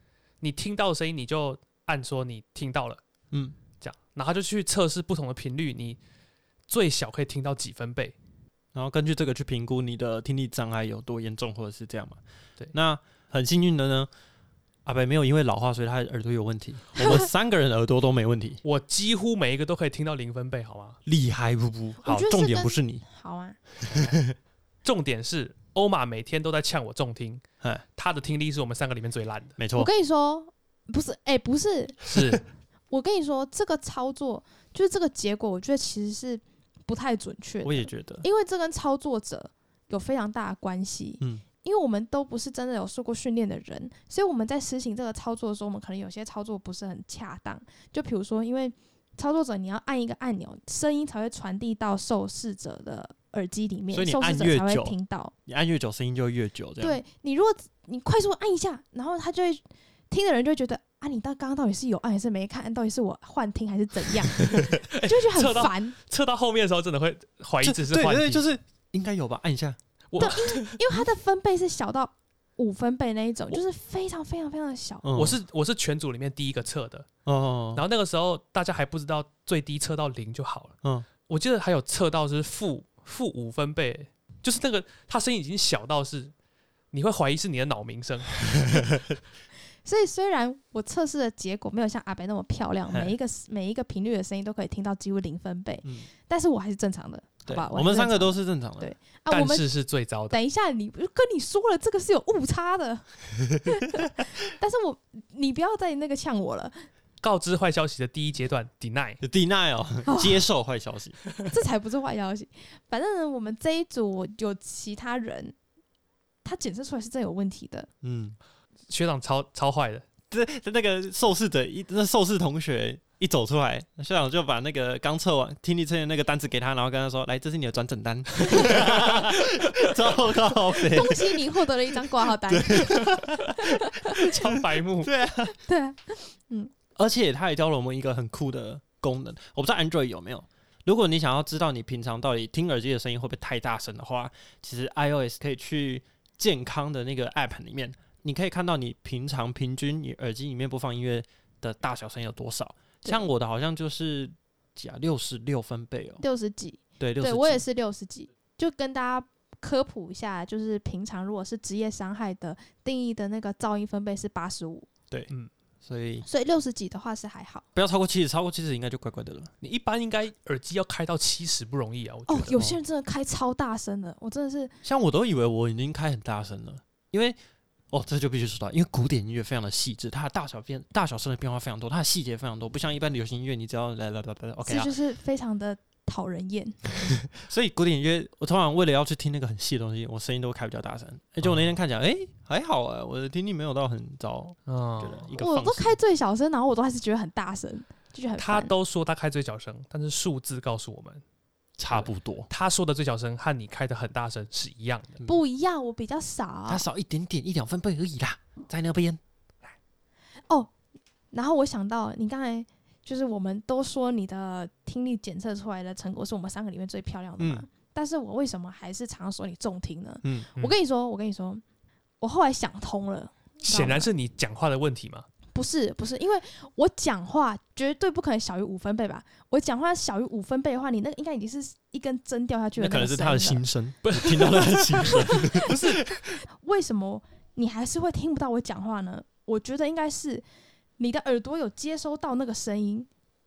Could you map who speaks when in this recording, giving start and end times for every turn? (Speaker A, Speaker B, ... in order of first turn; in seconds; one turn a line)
Speaker A: 0.4-3.0
Speaker A: 3.8-6.0
Speaker A: 6.7-8.1
Speaker B: 8.7-12.2
Speaker B: 12.7-14.1
Speaker B: 14.8-18.6
Speaker A: 18.6-21.0
Speaker B: 21.1-23.0
Speaker C: 22.0-23.6
Speaker B: 23.8-24.3
Speaker A: 24.8-27.4
Speaker A: 27.9-29.6
Speaker B: 29.6-29.9
Speaker C: 29.7-32.0
Speaker A: 32.1-32.4
Speaker B: 32.1-32.4
Speaker C: 32.9-55.3
Speaker B: 37.6-38.2
Speaker B: 53.9-57.0
Speaker C: 56.8-65.9
Speaker A: 64.3-68.4
Speaker B: 67.6-70.4
Speaker A: 70.1-71.0
Speaker C: 70.2-75.1
Speaker B: 75.0-75.4
Speaker A: 75.1-77.1
Speaker B: 77.2-77.8
Speaker A: 77.7-80.8
Speaker A: 81.3-86.3
Speaker A: 86.9-88.9
Speaker B: 88.5-89.2
Speaker C: 89.8-99.7
Speaker B: 97.5-98.9
Speaker A: 99.3-100.4
Speaker C: 100.3-103.1
Speaker C: 103.6-106.8
Speaker A: 107.2-109.2
Speaker B: 109.2-111.2
Speaker C: 110.0-110.5
Speaker C: 111.5-115.5
Speaker C: 116.4-117.9
Speaker B: 118.0-118.4
Speaker A: 118.9-120.0
Speaker B: 120.3-135.6
Speaker A: 128.5-129.9
Speaker C: 130.7-134.2
Speaker A: 134.1-135.1
Speaker C: 135.6-136.7
Speaker B: 136.9-156.2
Speaker C: 156.2-164.9
Speaker B: 157.0-157.6
Speaker B: 165.8-166.2
Speaker C: 166.2-167.6
Speaker B: 167.7-169.5
Speaker A: 169.6-172.6
Speaker C: 172.3-174.7
Speaker B: 174.8-177.4
Speaker B: 177.9-184.9
Speaker C: 184.6-186.9
Speaker B: 187.1-196.0
Speaker A: 194.7-195.3
Speaker C: 195.4-198.7
Speaker A: 198.4-201.2
Speaker B: 201.8-202.5
Speaker A: 201.9-205.2
Speaker C: 205.2-206.8
Speaker B: 206.7-209.2
Speaker C: 211.3-221.6
Speaker B: 217.4-217.7
Speaker C: 222.2-224.1
Speaker A: 223.6-225.3
Speaker C: 225.5-233.6
Speaker B: 232.8-236.4
Speaker A: 234.1-236.0
Speaker C: 236.6-240.4
Speaker C: 241.0-243.1